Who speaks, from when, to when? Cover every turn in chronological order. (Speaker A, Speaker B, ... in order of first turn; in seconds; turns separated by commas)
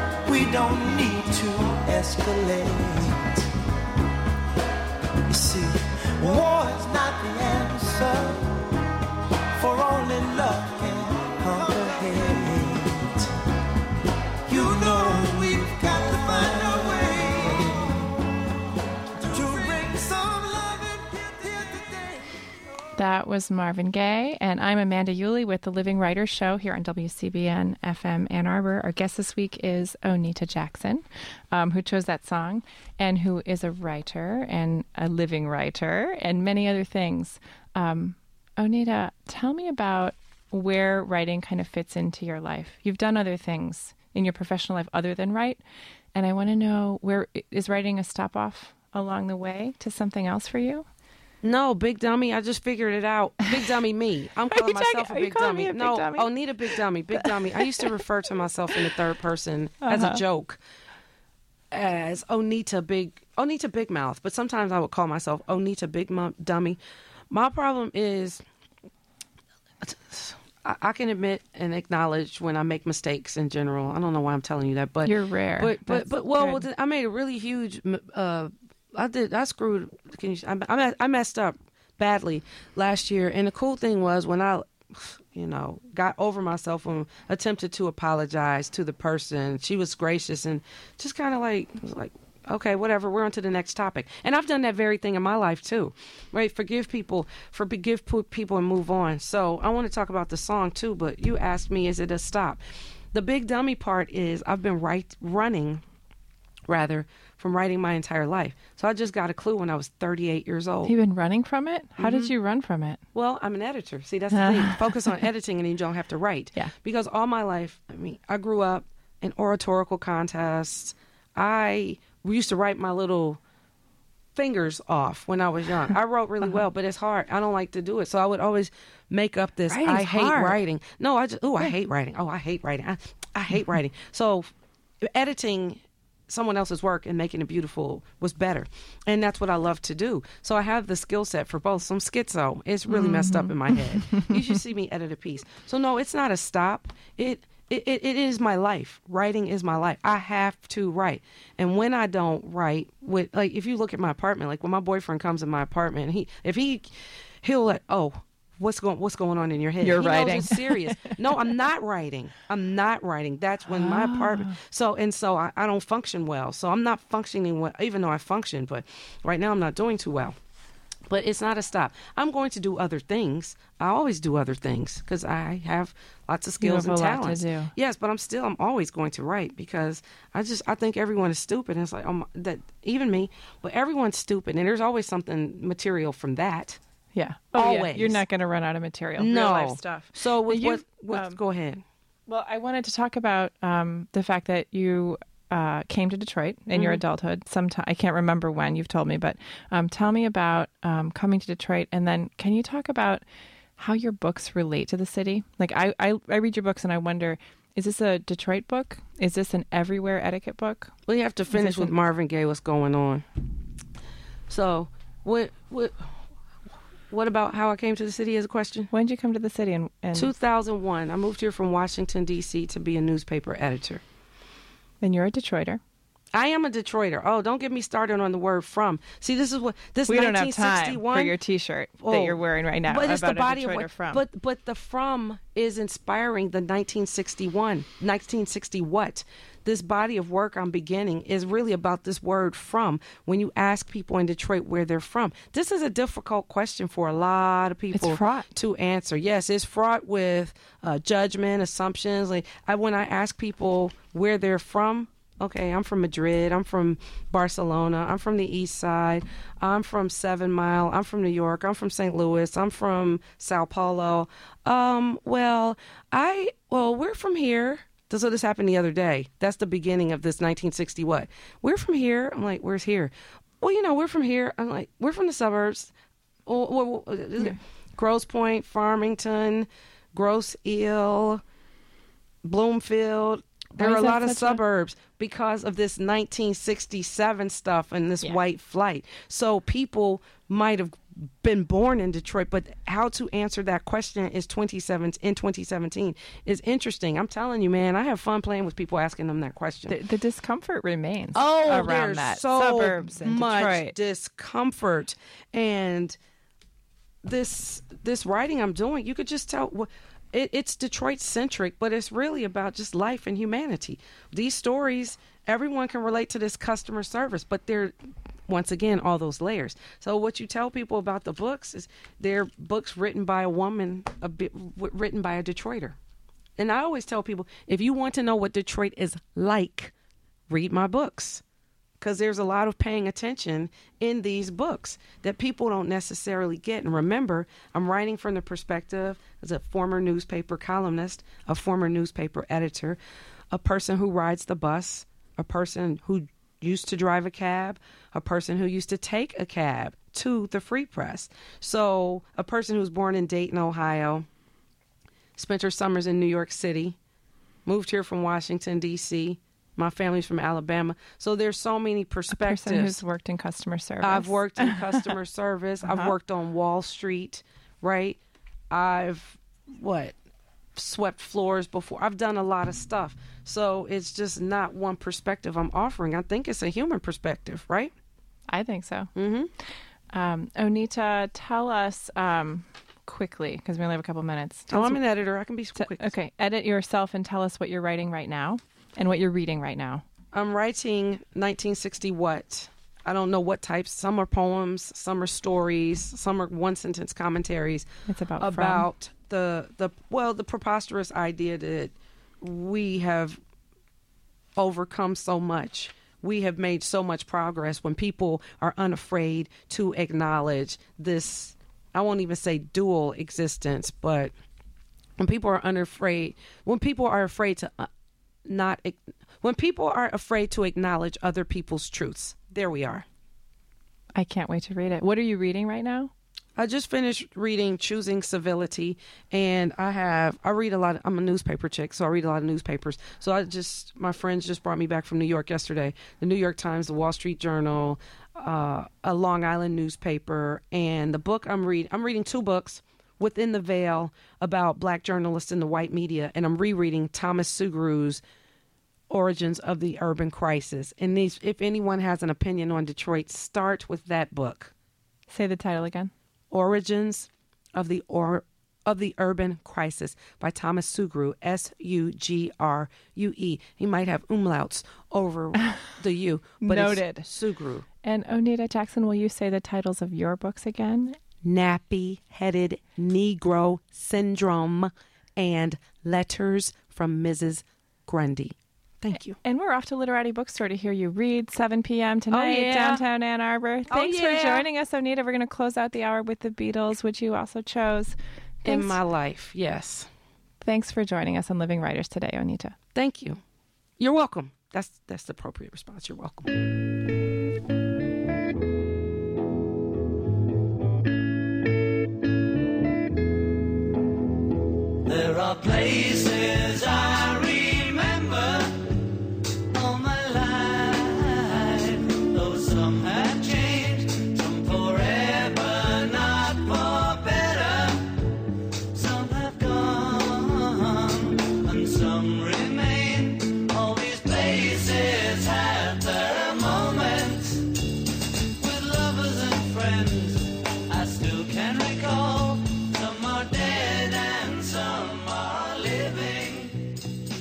Speaker A: 0.2-3.4, Speaker A: 5.3-8.6, Speaker A: 9.5-13.3, Speaker A: 14.5-18.1, Speaker A: 19.2-22.4, Speaker B: 22.9-45.6, Speaker B: 46.1-50.9, Speaker C: 51.4-60.6, Speaker B: 54.5-56.3, Speaker B: 57.2-57.9, Speaker B: 59.8-60.2, Speaker C: 61.7-66.8, Speaker C: 67.3-68.4, Speaker C: 69.8-102.6, Speaker B: 75.0-76.6, Speaker C: 103.1-105.8, Speaker C: 106.7-110.9, Speaker B: 110.8-113.0, Speaker C: 112.0-112.3, Speaker C: 113.1-123.4, Speaker B: 114.3-115.1, Speaker C: 124.3-170.3, Speaker B: 129.7-130.6, Speaker B: 142.9-144.3, Speaker B: 159.8-161.2, Speaker B: 163.7-164.6, Speaker C: 171.1-186.8, Speaker B: 176.6-177.7, Speaker B: 187.1-191.4, Speaker C: 187.5-188.2, Speaker C: 189.2-191.8, Speaker B: 192.3-203.2, Speaker C: 196.7-197.0, Speaker B: 203.8-210.9, Speaker C: 211.1-213.2, Speaker B: 211.5-211.9, Speaker C: 214.5-216.0, Speaker C: 217.1-218.9, Speaker B: 218.9-220.3, Speaker C: 220.1-224.0, Speaker B: 225.0-225.8, Speaker C: 226.3-231.3, Speaker B: 230.1-234.2, Speaker C: 232.0-275.9, Speaker B: 247.9-248.5, Speaker C: 276.4-281.4, Speaker C: 282.4-300.0, Speaker B: 283.8-284.6, Speaker B: 299.9-303.9, Speaker C: 301.3-306.2, Speaker C: 307.2-317.9, Speaker C: 318.5-326.0, Speaker C: 326.6-329.9, Speaker C: 330.5-331.4, Speaker C: 332.0-343.0, Speaker C: 343.5-354.3, Speaker C: 355.4-357.0, Speaker C: 357.6-363.0, Speaker B: 362.3-365.0, Speaker C: 364.0-368.2, Speaker B: 365.8-366.1, Speaker C: 368.7-370.2, Speaker C: 370.8-377.9, Speaker B: 378.5-379.1, Speaker C: 379.1-379.5, Speaker B: 380.1-385.0, Speaker C: 384.7-386.1, Speaker B: 385.8-390.0, Speaker C: 390.3-397.9, Speaker B: 398.1-398.9, Speaker C: 398.4-403.4, Speaker C: 404.6-414.3, Speaker C: 415.2-417.9, Speaker C: 418.4-423.1, Speaker B: 424.1-426.1, Speaker C: 426.6-448.2, Speaker C: 449.1-454.7, Speaker B: 455.3-456.1, Speaker C: 456.5-467.9, Speaker B: 466.6-467.3, Speaker B: 468.0-471.2, Speaker C: 471.4-479.4, Speaker B: 479.1-489.0, Speaker C: 482.3-483.0, Speaker C: 483.9-484.7, Speaker C: 488.6-490.1, Speaker B: 490.6-492.8, Speaker C: 492.9-493.4, Speaker C: 494.0-496.5, Speaker D: 505.0-508.9, Speaker D: 509.7-518.2, Speaker D: 518.9-527.8, Speaker D: 528.6-536.9